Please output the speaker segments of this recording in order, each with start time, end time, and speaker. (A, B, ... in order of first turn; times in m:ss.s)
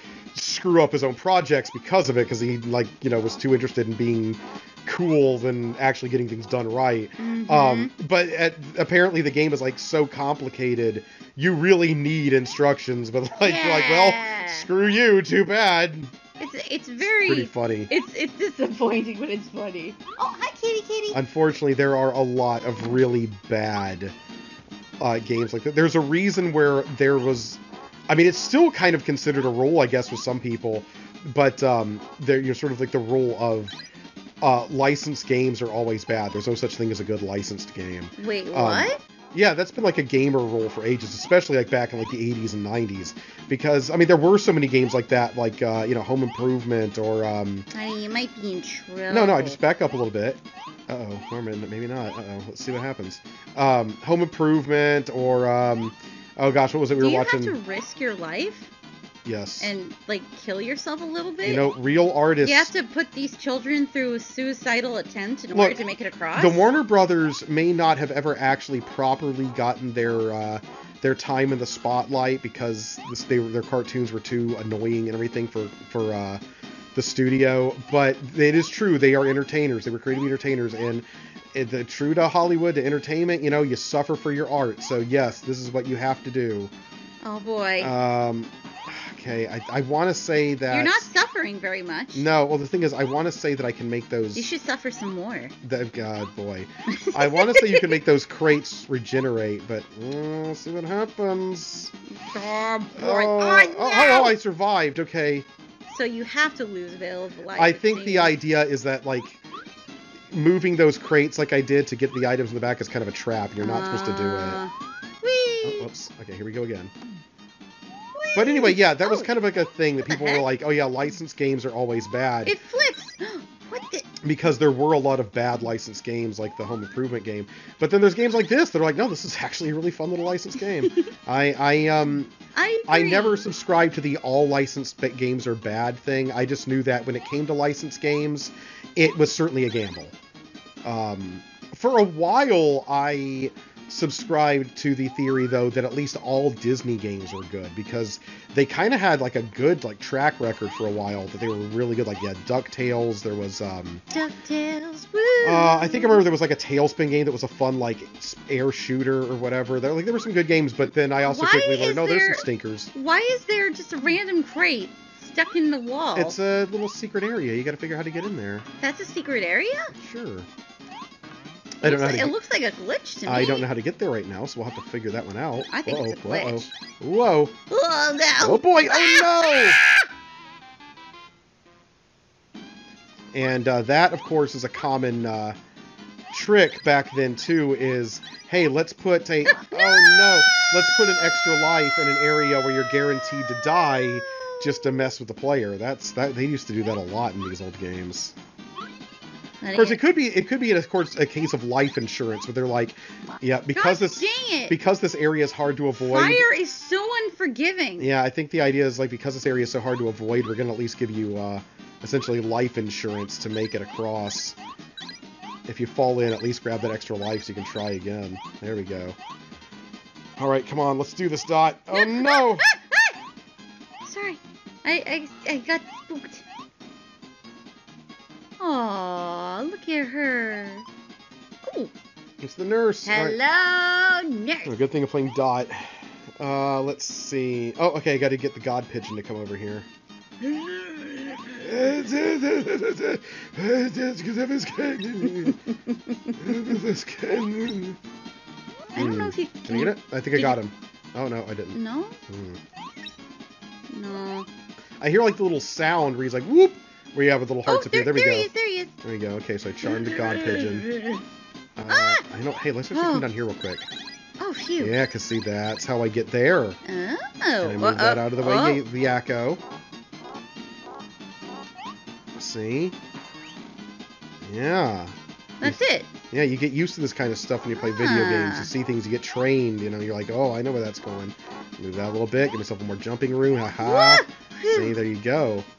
0:00.3-0:16.1 A
0:07.2-0:07.9 B
0:13.4-0:14.7 B
0:16.4-0:21.2 B
0:17.0-0:17.9 A
0:21.1-0:24.1 A
0:25.0-0:33.8 A
0:34.4-0:47.7 A
0:38.2-0:39.0 B
0:47.7-0:49.6 B
0:49.1-0:57.6 A
0:57.0-0:58.7 B
0:59.2-0:59.7 A
0:59.6-1:01.7 B
1:01.4-1:02.7 A
1:02.4-1:06.7 B
1:05.5-1:05.8 A
1:06.3-1:16.4 A
1:16.9-1:26.7 A
1:27.2-1:27.9 B
1:27.8-1:31.1 A
1:30.7-1:32.2 B
1:32.2-1:34.5 A
1:34.4-1:35.5 B
1:35.6-1:41.9 A
1:36.9-1:38.0 B
1:42.1-1:44.4 B
1:43.0-1:45.5 A
1:45.9-1:48.4 B
1:47.6-1:49.4 A
1:50.3-1:54.6 A
1:53.6-1:55.9 B
1:55.6-1:56.9 A
1:58.2-1:59.3 B
1:58.4-2:02.6 A
2:00.0-2:00.4 B
2:02.4-2:04.1 B
2:04.2-2:12.3 A
2:10.9-2:11.1 B
2:12.6-2:13.4 B
2:12.9-2:20.2 A
2:20.8-2:34.0 A
2:34.1-2:36.2 B
2:35.4-2:42.9 A
2:41.2-2:46.4 B
2:46.2-2:48.7 A
2:48.8-2:49.9 B
2:50.0-2:50.5 A
2:51.8-2:52.3 A
2:51.8-2:53.7 B
2:53.3-2:57.5 A
2:55.7-2:56.6 B
2:57.7-3:00.1 B
2:58.4-2:59.8 A
3:03.3-3:05.6 A
3:06.3-3:18.4 A
3:09.5-3:10.7 B
3:13.5-3:14.9 B
3:19.6-3:20.0 B
3:19.8-3:26.4 A
3:23.7-3:24.8 B
3:26.0-3:28.1 B
3:28.0-3:34.6 A
3:35.7-3:39.2 A
3:40.4-3:42.6 A
3:41.9-3:43.2 B
3:44.0-3:46.4 B
3:48.6-3:50.9 B
3:51.6-3:51.9 B
3:52.4-3:53.4 A
3:53.1-3:54.8 B
3:54.6-3:59.9 A
4:00.4-4:01.6 B
4:01.6-4:05.6 A
4:05.2-4:06.7 B
4:06.4-4:08.0 A
4:09.0-4:10.6 B
4:09.0-4:12.6 A
4:11.7-4:12.2 B
4:13.9-4:14.5 B
4:15.0-4:18.5 A
4:17.7-4:18.9 B
4:19.0-4:20.9 A
4:19.8-4:21.2 B
4:21.8-4:23.9 A
4:21.9-4:22.2 B
4:22.9-4:23.3 B
4:24.4-4:25.0 B
4:24.8-4:26.8 A
4:26.8-4:28.8 B
4:27.6-4:29.6 A
4:32.4-4:33.0 A
4:34.4-4:45.7 A
4:35.6-4:36.1 B
4:37.8-4:38.7 B
4:43.8-4:45.0 B